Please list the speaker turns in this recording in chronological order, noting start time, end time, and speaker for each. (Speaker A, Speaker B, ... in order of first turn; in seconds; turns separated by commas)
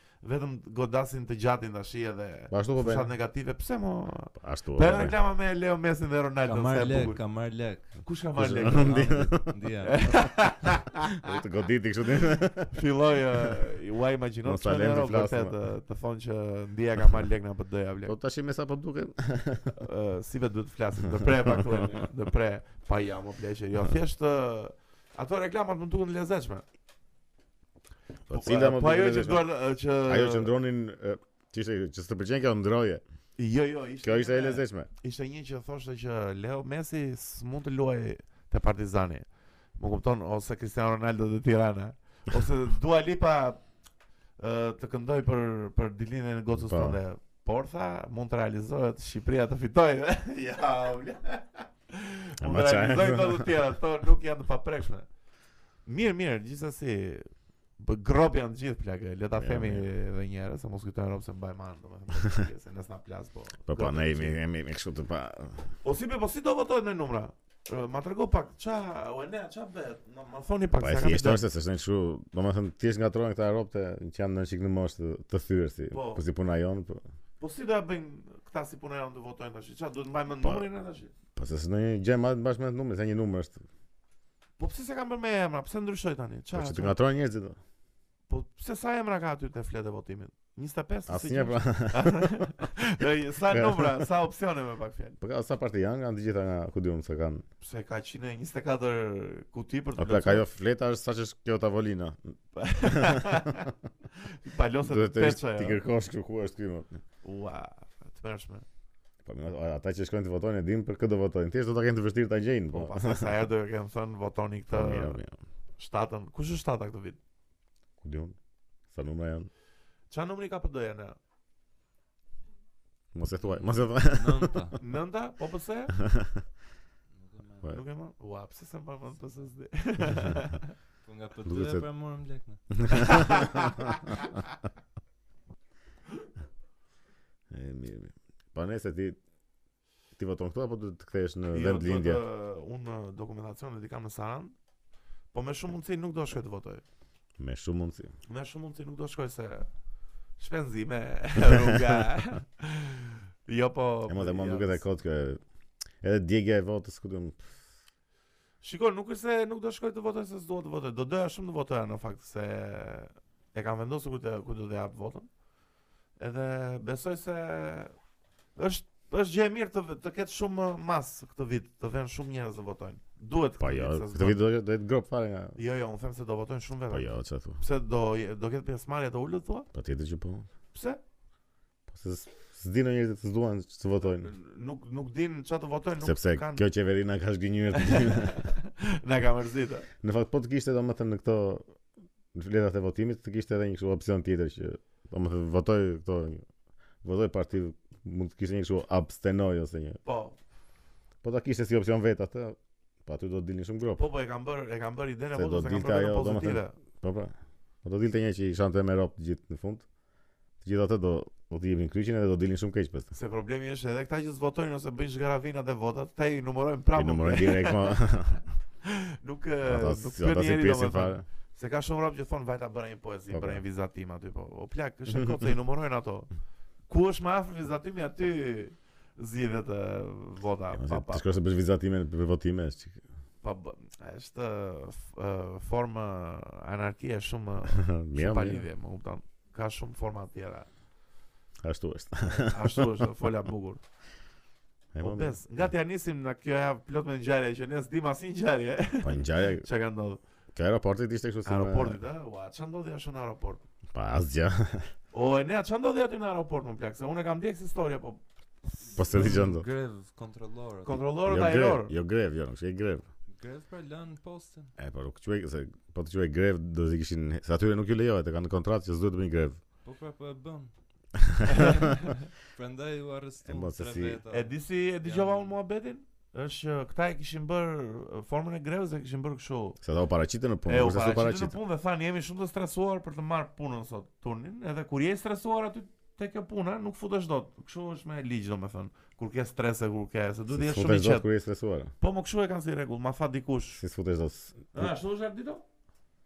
Speaker A: 0.2-7.2, Speaker B: 2.5-3.1, Speaker B: 4.4-5.2, Speaker C: 6.5-8.0, Speaker A: 8.0-9.0, Speaker B: 8.3-9.4, Speaker C: 8.6-10.1, Speaker A: 9.8-11.3, Speaker B: 11.2-12.7, Speaker A: 12.7-18.1, Speaker B: 14.4-15.5, Speaker B: 18.1-19.7, Speaker A: 19.8-26.6, Speaker B: 21.2-22.0, Speaker B: 28.3-33.0, Speaker A: 28.3-30.5, Speaker A: 33.4-43.6, Speaker B: 34.0-34.9, Speaker A: 44.4-55.1, Speaker B: 46.6-47.0, Speaker B: 52.4-53.7, Speaker A: 55.8-64.4, Speaker B: 59.4-59.9, Speaker B: 63.7-65.7, Speaker A: 65.8-71.4, Speaker B: 70.8-77.0, Speaker A: 75.9-76.2, Speaker A: 77.4-81.1, Speaker B: 81.3-83.6, Speaker A: 84.6-87.0, Speaker B: 86.5-87.6, Speaker A: 88.3-95.2, Speaker B: 91.1-92.5, Speaker B: 93.4-94.1, Speaker B: 95.2-97.4, Speaker A: 97.6-100.4, Speaker B: 100.0-103.6, Speaker A: 102.5-105.8, Speaker B: 104.8-107.0, Speaker A: 107.2-108.6, Speaker B: 109.2-113.4, Speaker A: 112.7-115.2, Speaker B: 114.7-115.3, Speaker A: 115.8-117.2, Speaker B: 118.0-118.3, Speaker B: 118.9-119.5, Speaker A: 120.1-121.2, Speaker B: 123.1-124.8, Speaker C: 123.4-124.8, Speaker A: 124.8-126.0, Speaker B: 126.0-126.4, Speaker C: 127.1-127.8, Speaker A: 127.7-130.7, Speaker C: 131.0-132.8, Speaker B: 131.4-131.8, Speaker B: 132.8-133.8, Speaker A: 132.9-134.3, Speaker B: 137.5-139.2, Speaker B: 140.2-142.2, Speaker A: 141.5-144.5, Speaker A: 145.3-146.8, Speaker B: 147.4-148.1, Speaker A: 148.3-149.7, Speaker A: 150.4-154.8, Speaker B: 154.1-155.4, Speaker B: 156.0-157.6, Speaker A: 158.6-165.3, Speaker A: 166.2-167.9, Speaker A: 168.6-174.4, Speaker B: 173.6-175.6, Speaker A: 175.5-179.7, Speaker B: 176.9-177.6, Speaker B: 179.7-180.5, Speaker A: 180.7-181.0, Speaker B: 181.9-184.3, Speaker A: 184.1-186.6, Speaker B: 186.0-188.5, Speaker A: 187.8-189.9, Speaker B: 190.0-191.6, Speaker B: 192.3-196.4, Speaker B: 197.0-200.0, Speaker A: 200.0-200.3, Speaker B: 201.2-204.0, Speaker A: 203.9-206.7, Speaker B: 205.3-207.3, Speaker B: 207.8-209.8, Speaker B: 210.6-213.1, Speaker A: 213.1-218.1, Speaker B: 216.9-218.4, Speaker A: 218.8-226.3, Speaker B: 219.6-221.2, Speaker B: 223.3-223.6, Speaker A: 226.9-231.2, Speaker B: 230.7-233.0, Speaker A: 233.4-240.7, Speaker B: 237.7-238.6, Speaker B: 241.6-243.2, Speaker A: 242.2-243.8, Speaker B: 244.9-245.7, Speaker A: 245.0-250.2, Speaker B: 249.0-249.7, Speaker B: 250.5-252.0, Speaker A: 251.4-253.6, Speaker B: 253.9-254.9, Speaker A: 255.1-258.2, Speaker C: 258.9-261.0, Speaker B: 258.9-259.7, Speaker A: 260.8-261.9, Speaker B: 261.2-263.1, Speaker C: 263.3-264.7, Speaker B: 264.8-269.6, Speaker C: 269.8-270.7, Speaker B: 271.2-271.9, Speaker A: 271.5-272.1, Speaker C: 272.4-275.6, Speaker B: 273.4-274.2, Speaker A: 274.3-279.8, Speaker B: 279.8-281.5, Speaker A: 280.6-291.3, Speaker B: 290.5-291.9, Speaker A: 292.0-293.8, Speaker B: 293.8-294.9, Speaker A: 294.7-295.6